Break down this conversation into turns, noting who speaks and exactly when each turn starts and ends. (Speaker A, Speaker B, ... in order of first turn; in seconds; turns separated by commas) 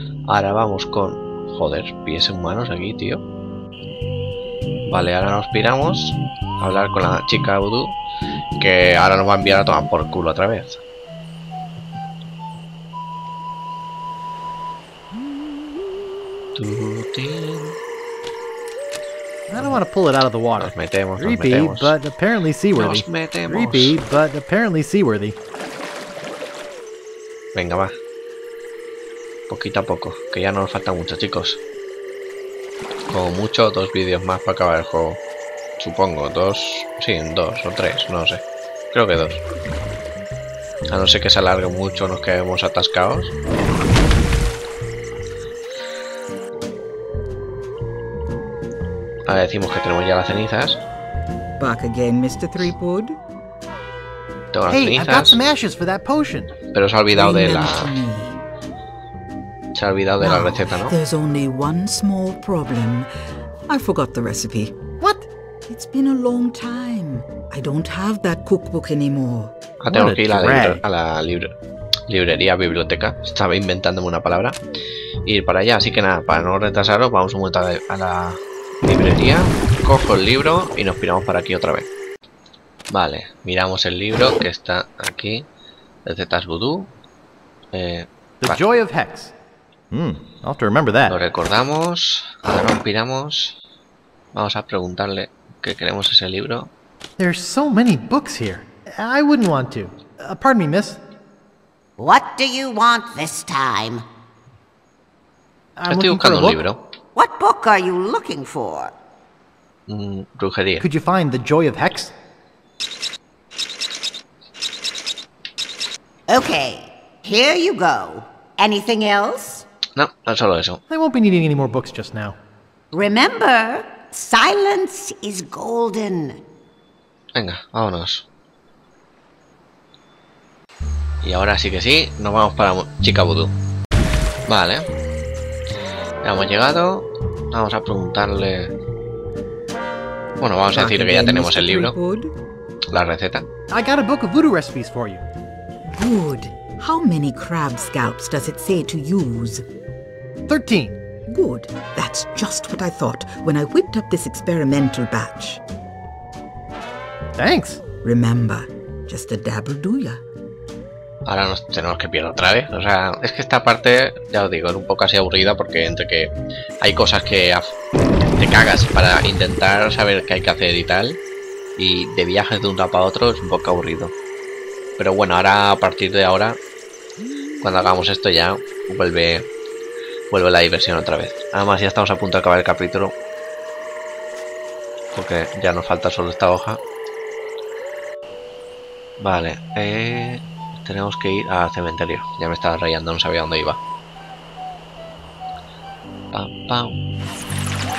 Speaker A: 0.3-3.2, Speaker A: 4.9-8.0, Speaker A: 8.6-10.8, Speaker A: 16.6-17.8, Speaker B: 19.5-25.4, Speaker A: 20.6-22.0, Speaker A: 22.8-24.0, Speaker A: 27.6-27.9, Speaker A: 29.5-31.6, Speaker A: 33.1-35.2, Speaker A: 35.8-39.4, Speaker A: 40.9-43.3, Speaker A: 49.3-50.8, Speaker C: 51.6-53.2, Speaker A: 54.5-55.4, Speaker B: 54.7-56.5, Speaker A: 56.7-58.0, Speaker C: 57.1-58.4, Speaker A: 59.8-60.9, Speaker C: 60.2-63.1, Speaker C: 63.7-64.8, Speaker B: 65.0-65.3, Speaker C: 65.7-69.5, Speaker A: 69.8-71.5, Speaker B: 69.9-70.8, Speaker A: 72.1-74.6, Speaker A: 75.3-81.9, Speaker A: 82.9-85.5, Speaker A: 86.1-86.9, Speaker A: 87.7-88.6, Speaker B: 88.4-89.3, Speaker B: 89.9-91.2, Speaker A: 91.1-93.6, Speaker A: 94.3-96.7, Speaker B: 97.2-101.0, Speaker D: 102.0-104.0, Speaker B: 105.8-106.7, Speaker A: 105.9-106.8, Speaker D: 107.2-108.9, Speaker A: 109.9-110.9, Speaker B: 110.8-112.1, Speaker D: 116.3-119.7, Speaker A: 120.0-120.8, Speaker B: 120.9-122.4, Speaker D: 122.9-126.4, Speaker A: 127.3-128.3, Speaker A: 131.2-133.5, Speaker A: 134.5-134.9, Speaker A: 136.2-138.7, Speaker A: 140.4-142.0, Speaker C: 140.7-142.3, Speaker A: 142.9-143.5, Speaker B: 143.7-145.2, Speaker C: 145.9-149.7, Speaker B: 150.5-151.0, Speaker C: 151.3-155.6, Speaker B: 157.4-157.8, Speaker C: 158.0-160.2, Speaker A: 161.3-167.7, Speaker A: 168.4-171.2, Speaker A: 171.8-174.1, Speaker A: 175.0-176.6, Speaker A: 177.6-179.5, Speaker A: 180.3-183.1, Speaker A: 185.1-186.8, Speaker A: 189.2-193.8, Speaker A: 196.3-197.0